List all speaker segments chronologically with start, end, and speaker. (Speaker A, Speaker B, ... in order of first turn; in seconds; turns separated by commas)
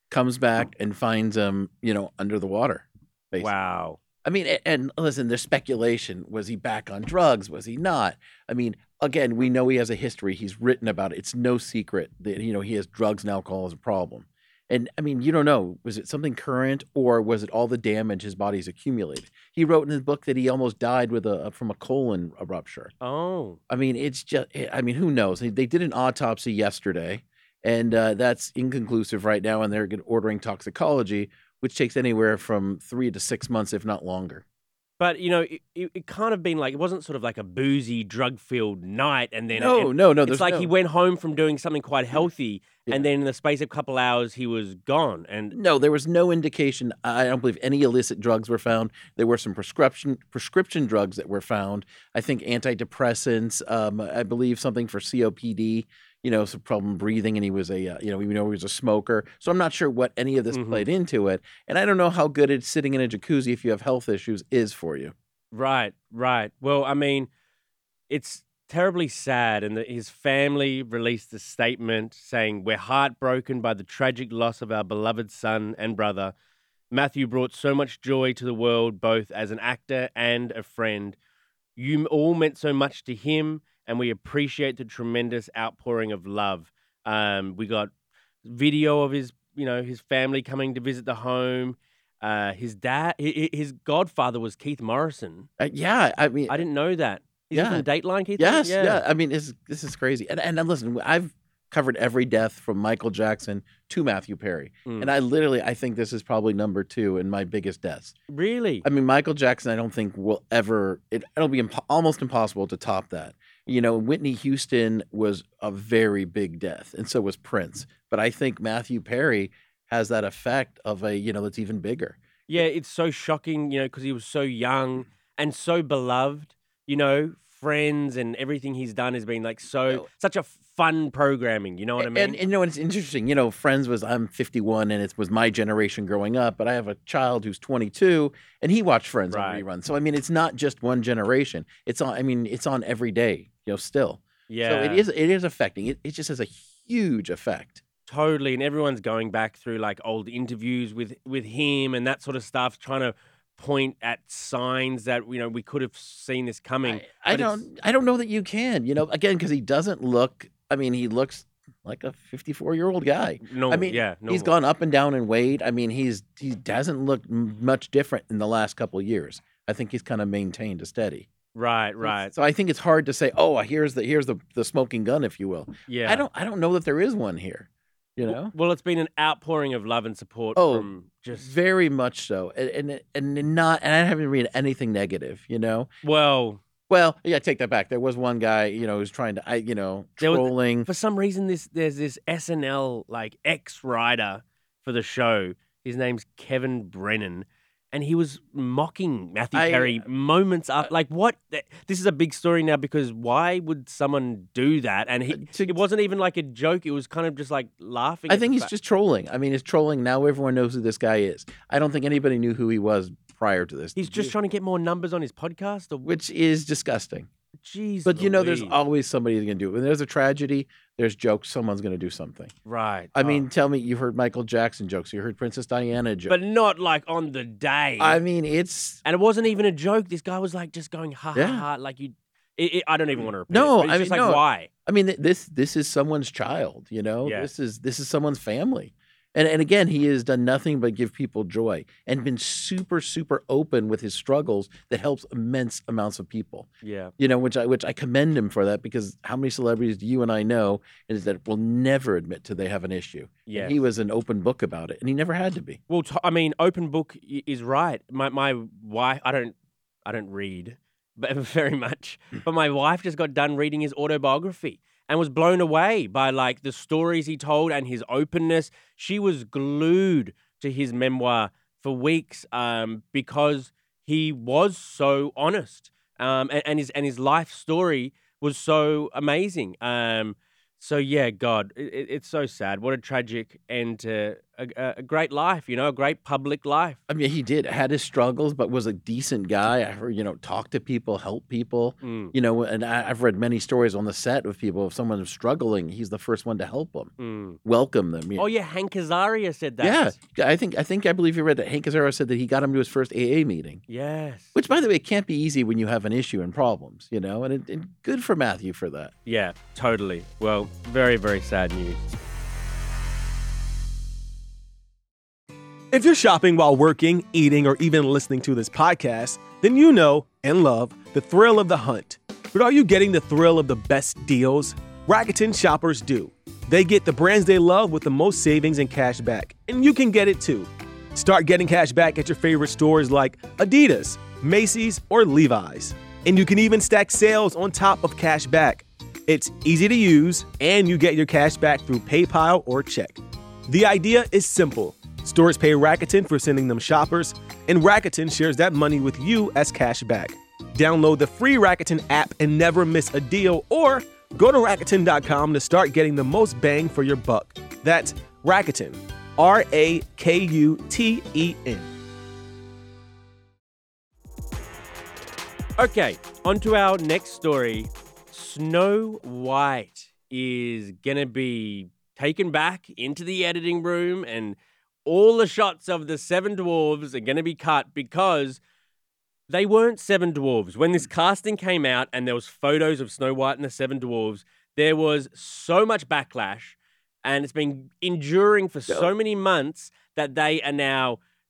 Speaker A: 0.1-3.5, Speaker B: 3.4-4.0, Speaker A: 4.2-22.9, Speaker B: 23.0-23.6, Speaker A: 23.7-34.4, Speaker B: 35.0-45.6, Speaker A: 39.5-40.7, Speaker A: 45.5-65.1, Speaker B: 60.5-60.9, Speaker B: 65.5-67.3, Speaker B: 68.1-76.3, Speaker B: 76.9-81.2, Speaker B: 81.8-87.9, Speaker B: 88.4-95.5, Speaker A: 95.6-96.6, Speaker B: 96.5-99.0, Speaker A: 97.5-108.2, Speaker B: 104.9-105.1, Speaker B: 108.3-108.8, Speaker A: 108.8-122.7, Speaker B: 122.5-132.4, Speaker A: 132.0-147.8, Speaker B: 139.3-139.6, Speaker B: 144.5-145.1, Speaker B: 148.1-157.7, Speaker A: 156.8-171.3, Speaker B: 163.4-164.5, Speaker B: 171.5-172.3, Speaker A: 172.0-178.5, Speaker B: 175.9-176.3, Speaker B: 178.3-181.5, Speaker A: 180.6-185.9, Speaker B: 186.0-186.6, Speaker A: 186.9-190.9, Speaker B: 190.2-208.7, Speaker A: 199.5-200.1, Speaker A: 205.3-205.8, Speaker A: 208.3-214.3, Speaker B: 214.0-216.1, Speaker A: 216.0-217.3, Speaker B: 217.6-218.8, Speaker A: 218.1-222.5, Speaker B: 222.7-223.4, Speaker A: 223.2-226.4, Speaker B: 226.3-228.2, Speaker A: 228.0-229.0, Speaker B: 229.1-234.7, Speaker A: 231.3-231.7, Speaker A: 233.5-246.7, Speaker B: 237.2-237.5, Speaker B: 246.8-247.1, Speaker A: 247.2-255.8, Speaker B: 253.5-253.8, Speaker B: 255.9-287.0, Speaker A: 287.1-297.1, Speaker B: 292.0-292.4, Speaker B: 297.2-297.6, Speaker A: 297.6-298.5, Speaker B: 298.4-300.1, Speaker A: 299.8-303.8, Speaker B: 303.9-304.5, Speaker A: 304.6-309.1, Speaker B: 309.2-312.0, Speaker C: 315.9-361.9, Speaker B: 365.8-378.6, Speaker B: 379.5-391.2, Speaker A: 388.9-389.1